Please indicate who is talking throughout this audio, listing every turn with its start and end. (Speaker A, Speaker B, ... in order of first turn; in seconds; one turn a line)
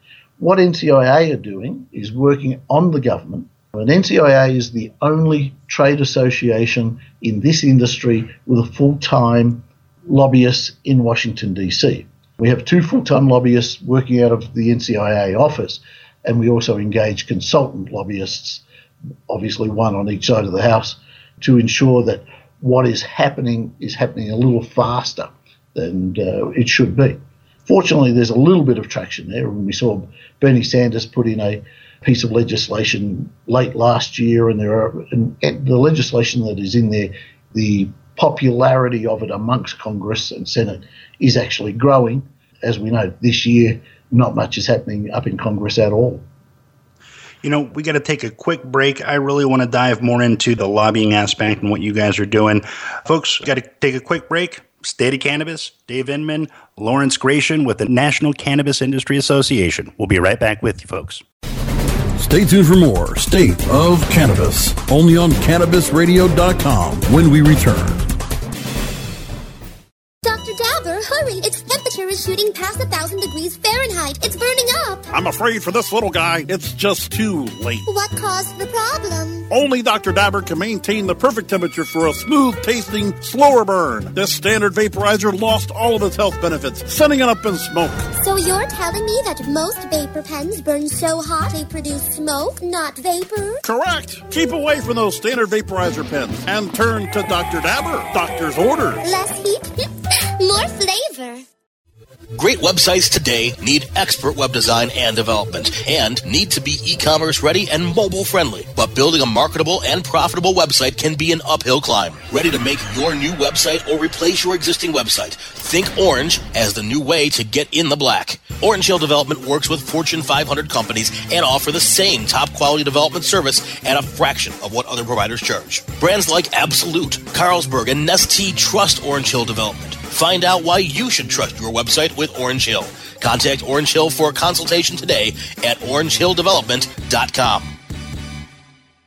Speaker A: 0.4-18.6
Speaker A: 19.3-46.3
Speaker B: 47.4-61.2
Speaker C: 62.2-68.0
Speaker D: 70.2-75.1
Speaker E: 75.1-77.9
Speaker D: 77.9-79.5
Speaker E: 79.5-88.1
Speaker D: 88.2-93.6
Speaker E: 93.6-99.0
Speaker D: 99.0-101.5
Speaker F: 102.4-137.8